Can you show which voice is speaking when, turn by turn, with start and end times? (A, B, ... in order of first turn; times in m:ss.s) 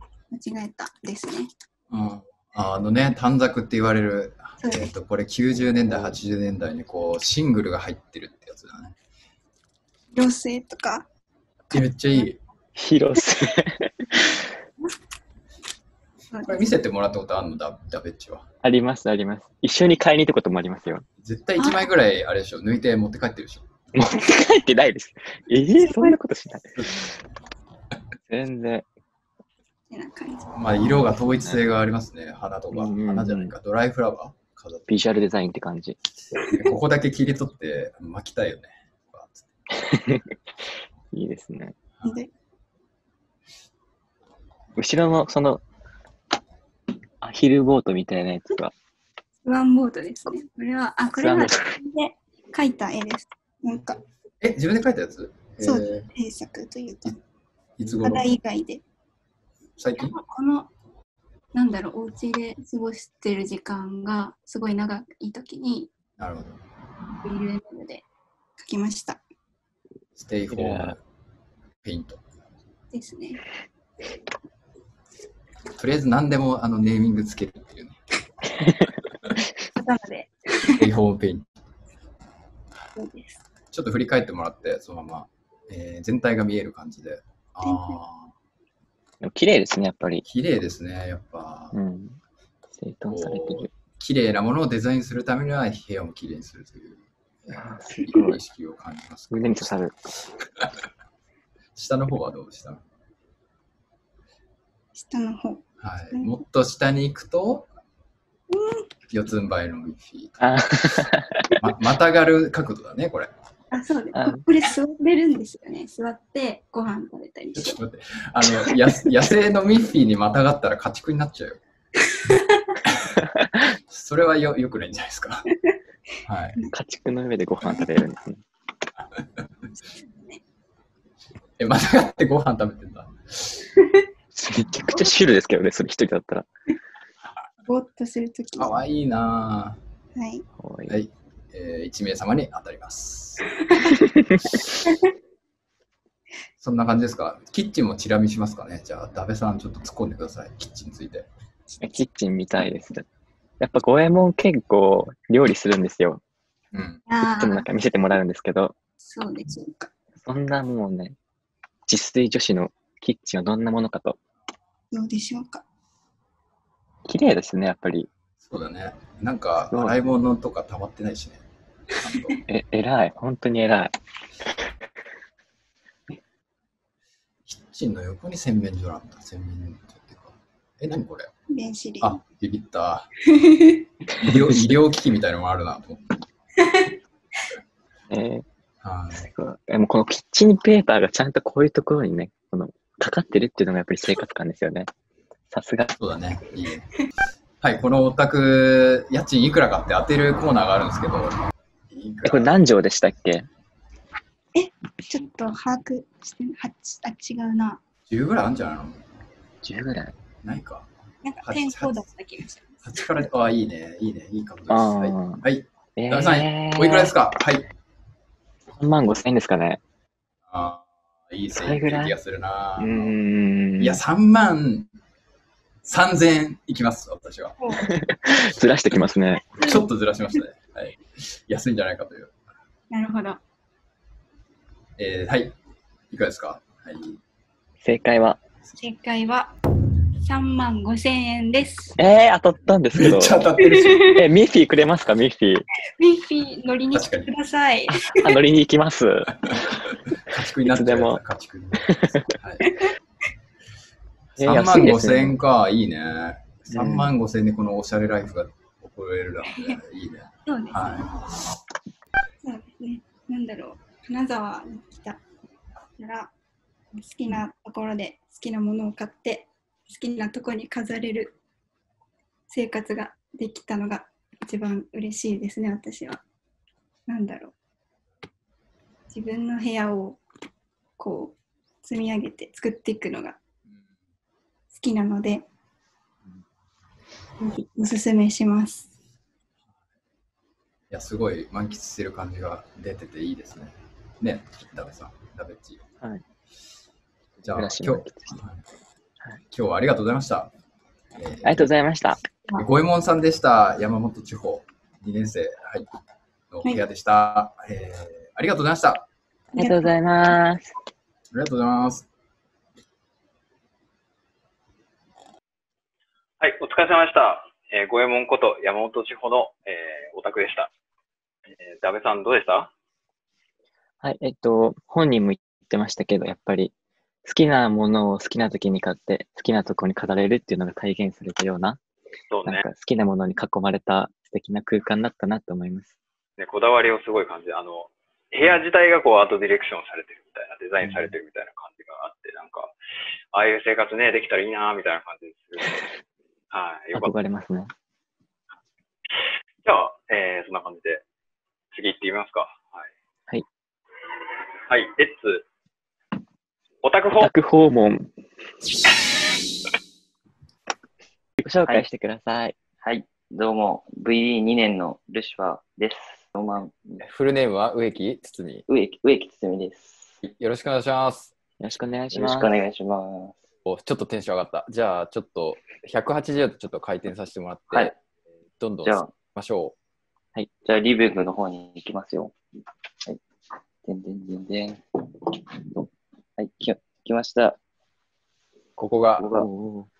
0:00.3-0:01.5 A
0:01.9-0:09.0 B
0:04.6-0:04.9 A
0:10.1-0:11.1 A
0:11.7-0:12.4 B
0:12.8-0:14.4 C
0:16.3-0:16.7 A
0:16.5-0:18.4 B
0:18.6-0:21.0 C
0:21.2-0:23.7 B
0:21.6-0:21.9 A
0:23.9-0:27.1 C
0:25.8-0:26.2 A
0:28.3-0:28.9 C
0:29.9-0:30.5 A
0:30.5-0:34.9 B
0:32.7-0:33.5 C
0:34.9-0:36.0 C
0:36.4-0:39.5 B
0:39.7-0:40.4 C
0:41.1-0:41.8 C
0:42.0-0:42.3 A
0:44.8-0:45.6 C
0:47.2-0:48.7 C
0:49.4-0:54.0 A
0:51.1-0:51.8 C
0:54.4-0:56.1 B
0:55.6-0:57.2 A
0:57.8-0:58.3 B
0:57.8-0:58.8 A
0:59.8-1:00.1 B
1:00.0-1:00.7 A
1:01.5-1:05.9 A
1:06.2-1:06.6 B
1:07.2-1:08.0 A
1:08.6-1:09.2 A
1:10.2-1:11.0 B
1:10.5-1:11.0 C
1:11.8-1:12.2 B
1:12.9-1:13.4 A
1:15.8-1:18.0 B
1:19.7-1:20.8 A
1:20.8-1:21.4 B
1:23.0-1:23.4 A
1:23.7-1:28.3 B
1:27.6-1:28.0 A
1:29.2-1:30.2 C
1:30.2-1:31.8 B
1:31.7-1:32.2 C
1:32.8-1:33.7 C
1:33.1-1:39.8 B
1:37.5-1:38.4 C
1:39.3-1:40.1 C
1:41.8-1:42.8 B
1:45.0-1:46.3 A
1:45.8-1:47.7 B
1:48.5-1:48.9 A
1:49.1-1:51.0 B
1:50.4-1:51.6 C
1:51.6-1:53.3 B
1:53.7-1:57.8 A
1:54.1-1:54.4 C
1:57.5-2:01.6 B
2:03.9-2:05.5 B
2:06.2-2:06.6 B
2:06.7-2:08.4 C
2:09.7-2:10.4 A
2:11.6-2:13.7 B
2:14.3-2:16.5 C
2:17.6-2:18.8 A
2:18.6-2:19.8 B
2:20.2-2:20.4 A
2:20.6-2:21.0 C
2:20.9-2:23.5 B
2:23.6-2:23.9 A
2:23.9-2:24.7 C
2:26.6-2:31.3 B
2:31.8-2:33.1 C
2:33.6-2:36.2 C
2:36.7-2:37.0 B
2:37.1-2:37.7 A
2:37.2-2:38.7 C
2:39.0-2:39.9 A
2:40.2-2:41.2 C
2:41.9-2:44.2 C
2:44.9-2:45.6 A
2:47.1-2:48.1 C
2:48.4-2:51.4 B
2:49.7-2:50.0 C
2:52.0-2:52.4 B
2:52.5-2:53.9 C
2:57.5-3:01.3 B
3:01.5-3:02.2 A
3:02.0-3:03.1 B
3:03.4-3:03.8 A
3:04.2-3:04.6 C
3:04.2-3:06.2 B
3:06.6-3:07.0 A
3:08.1-3:08.5 C
3:08.8-3:09.3 B
3:09.1-3:14.9 C
3:15.5-3:15.9 C
3:16.0-3:16.9 B
3:17.6-3:22.5 B
3:22.2-3:23.5 C
3:24.5-3:27.8 A
3:28.1-3:29.0 B
3:29.6-3:30.1 C
3:30.4-3:30.9 B
3:31.2-3:32.8 A
3:31.4-3:31.9 B
3:32.8-3:37.6 B
3:34.7-3:35.4 C
3:36.0-3:37.1 C
3:38.8-3:39.8 C
3:40.5-3:43.1 B
3:41.5-3:42.1 C
3:42.8-3:44.0 C
3:43.8-3:44.9 B
3:45.8-3:47.6 B
3:47.8-3:49.5 C
3:49.6-3:52.3 B
3:52.9-3:53.4 A
3:55.0-3:55.5 B
3:56.1-3:57.2 B
3:57.8-3:58.4 C
3:58.8-3:59.5 A
4:00.2-4:02.0 A
4:02.0-4:03.5 C
4:02.9-4:04.2 B
4:03.6-4:04.0 A
4:04.0-4:05.7 C
4:06.0-4:08.3 A
4:06.9-4:07.3 B
4:08.2-4:09.7 C
4:10.2-4:12.7 B
4:10.6-4:11.2 C
4:11.9-4:12.3 C
4:14.4-4:21.5 B
4:14.4-4:15.4 C
4:16.7-4:17.1 C
4:20.5-4:20.9 A
4:22.4-4:25.2 A
4:26.0-4:26.3 A
4:26.9-4:31.4 A
4:32.5-4:36.2 A
4:37.1-4:37.5 A
4:39.1-4:40.2 A
4:41.0-4:43.4 A
4:44.7-4:45.5 A
4:47.4-4:48.9 A
4:50.9-4:55.8 B
4:57.4-4:58.6 B
4:57.5-4:58.4 C
4:59.5-5:00.5 B
5:01.2-5:01.6 B
5:01.4-5:02.2 C
5:02.6-5:05.9 B
5:06.5-5:09.1 B
5:09.5-5:10.8 C
5:09.5-5:10.0 A
5:11.3-5:12.1 B
5:16.4-5:20.7 D
5:21.6-5:22.7 D
5:24.0-5:26.7 C
5:27.2-5:31.8 C
5:32.3-5:32.7 D
5:32.5-5:36.0 C
5:36.4-5:42.7 D
5:40.8-5:41.1 C
5:43.3-5:45.9 D
5:46.5-5:47.1 D
5:46.9-5:47.7 C
5:49.6-5:51.0 D
5:51.7-5:52.9 D
5:54.7-5:55.4 D
5:56.8-5:57.3 D
5:57.2-5:58.1 C
6:01.4-6:02.6 C
6:02.8-6:07.0 E
6:07.0-6:08.6 B
6:08.7-6:10.2 E
6:10.2-6:11.3 B
6:11.6-6:12.5 C
6:12.1-6:13.4 E
6:13.6-6:18.0 B
6:18.6-6:19.8 B
6:18.8-6:19.1 E
6:20.6-6:22.4 E
6:23.8-6:24.8 E
6:25.7-6:27.6 E
6:28.8-6:29.3 B
6:29.2-6:29.5 E
6:29.4-6:29.9 C